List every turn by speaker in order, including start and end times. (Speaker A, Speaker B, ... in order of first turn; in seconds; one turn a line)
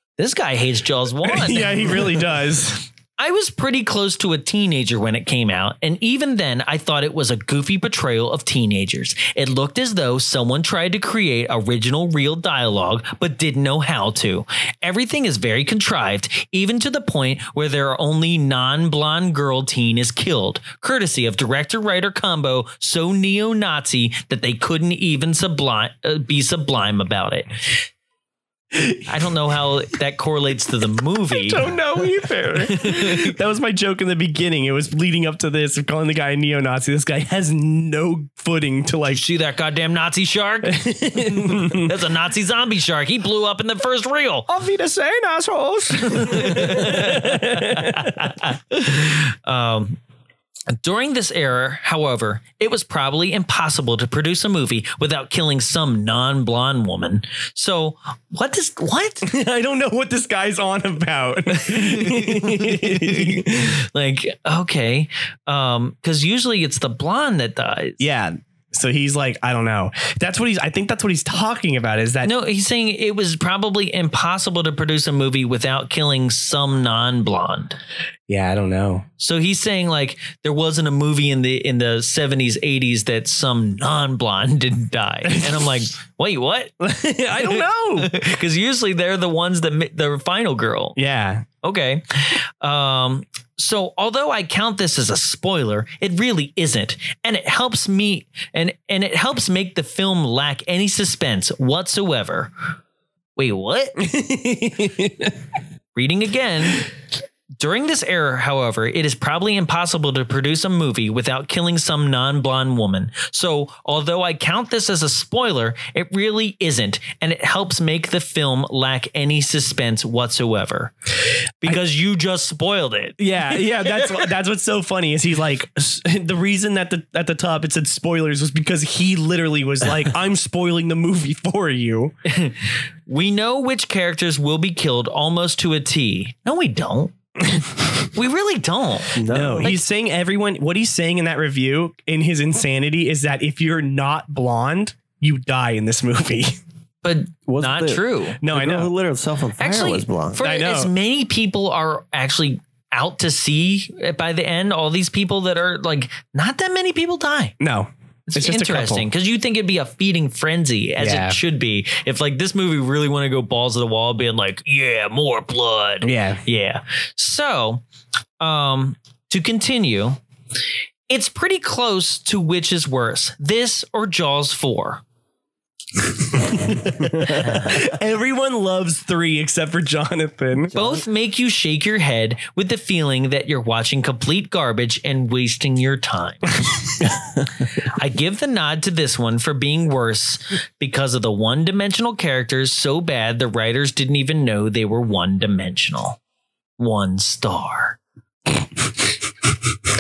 Speaker A: 0.2-2.3
Speaker B: 1.2-2.9
Speaker A: 3.2-27.6
Speaker A: 29.1-31.7
Speaker B: 31.3-39.2
Speaker A: 32.5-33.4
Speaker A: 39.1-44.5
Speaker B: 40.6-41.9
Speaker B: 44.5-48.3
Speaker A: 46.0-50.0
Speaker A: 50.7-59.3
Speaker B: 59.2-63.8
Speaker A: 61.5-68.0
Speaker B: 68.0-72.3
Speaker A: 72.2-77.8
Speaker B: 78.3-79.1
Speaker A: 79.2-86.7
Speaker B: 85.3-85.7
Speaker B: 86.8-88.1
Speaker A: 87.3-91.0
Speaker B: 91.0-91.5
Speaker A: 91.6-102.5
Speaker A: 103.4-104.0
Speaker B: 104.0-105.3
Speaker A: 106.0-106.9
Speaker A: 107.6-120.9
Speaker A: 121.6-124.3
Speaker B: 123.2-132.1
Speaker A: 132.3-137.1
Speaker A: 138.1-139.8
Speaker C: 139.2-139.7
Speaker B: 139.3-146.6
Speaker A: 147.0-148.4
Speaker C: 147.5-150.4
Speaker B: 148.4-148.9
Speaker A: 149.6-157.6
Speaker B: 150.4-150.9
Speaker B: 157.6-159.1
Speaker A: 158.3-167.8
Speaker B: 161.0-161.4
Speaker B: 166.0-166.4
Speaker A: 168.4-170.2
Speaker A: 171.1-175.0
Speaker B: 176.3-180.7
Speaker A: 177.3-177.9
Speaker A: 180.7-186.5
Speaker A: 187.8-196.2
Speaker A: 196.8-198.0